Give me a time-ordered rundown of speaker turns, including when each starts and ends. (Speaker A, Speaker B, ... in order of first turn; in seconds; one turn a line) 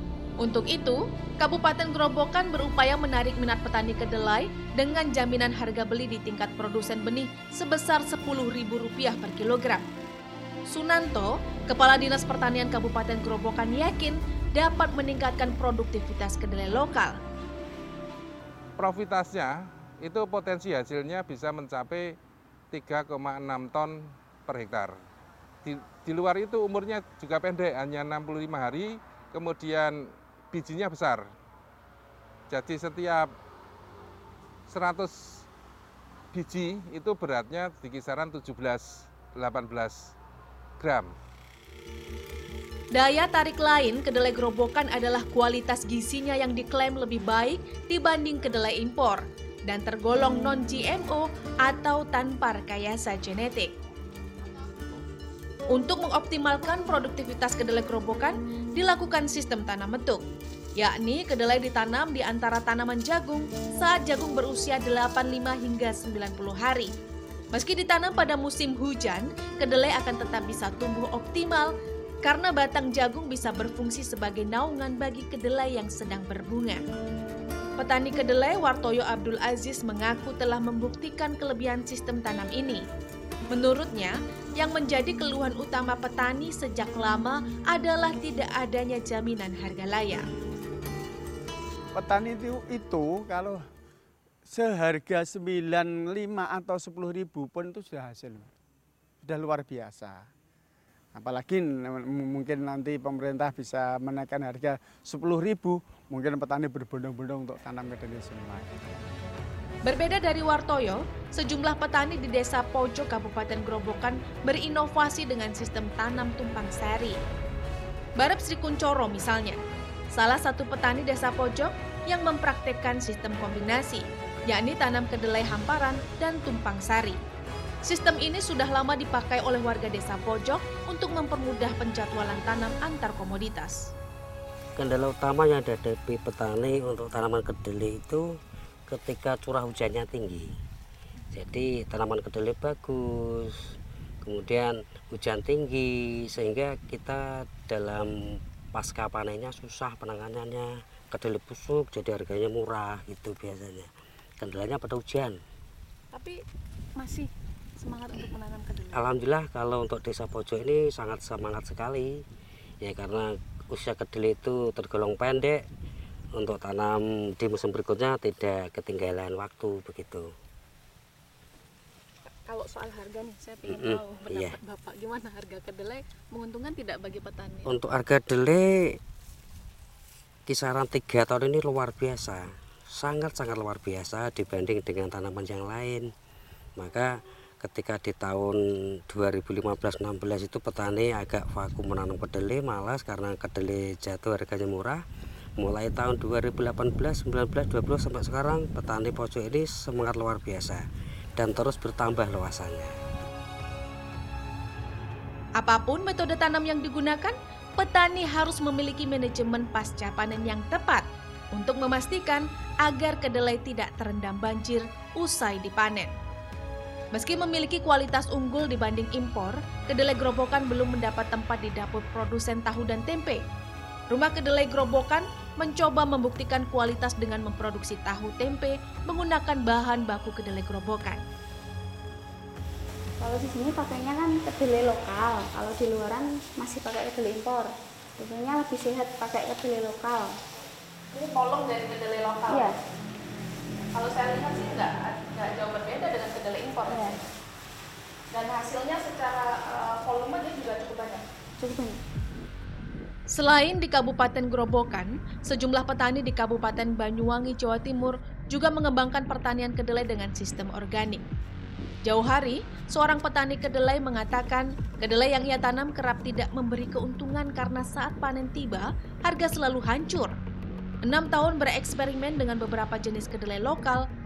Speaker A: 0.4-9.8
Speaker A: 10.7-17.2
Speaker B: 18.8-22.2
Speaker B: 22.7-25.0
Speaker B: 25.6-31.3
Speaker B: 32.5-33.3
Speaker B: 34.7-35.5
Speaker B: 36.3-40.1
Speaker B: 40.8-41.1
Speaker A: 42.9-53.7
Speaker A: 55.7-60.2
Speaker A: 60.8-66.9
Speaker A: 67.5-71.7
Speaker A: 72.2-76.8
Speaker A: 77.8-82.8
Speaker A: 83.5-90.3
Speaker C: 92.0-93.6
Speaker C: 94.5-98.5
Speaker C: 99.3-100.3
Speaker C: 101.2-109.0
Speaker A: 109.9-117.2
Speaker A: 118.2-119.6
Speaker A: 120.1-127.2
Speaker A: 127.8-133.9
Speaker D: 134.8-138.3
Speaker D: 138.9-140.5
Speaker D: 141.3-143.7
Speaker D: 144.2-153.9
Speaker D: 154.4-155.4
Speaker E: 156.1-156.4
Speaker E: 157.0-159.1
Speaker D: 158.9-162.2
Speaker D: 162.8-165.6
Speaker D: 166.4-170.3
Speaker E: 172.5-177.8
Speaker D: 173.7-174.6
Speaker D: 177.7-179.0
Speaker D: 180.5-186.1
Speaker D: 186.8-188.6
Speaker D: 189.1-195.0
Speaker D: 195.6-200.8
Speaker D: 201.4-202.9
Speaker A: 205.6-216.1
Speaker A: 217.1-223.4
Speaker A: 224.1-231.2
Speaker F: 233.2-240.4
Speaker E: 241.1-242.7
Speaker F: 242.5-242.8
Speaker E: 243.9-247.2
Speaker F: 246.8-247.2
Speaker E: 248.3-251.2
Speaker F: 251.6-252.0
Speaker A: 253.3-261.2
Speaker A: 262.1-270.4
Speaker A: 271.1-274.1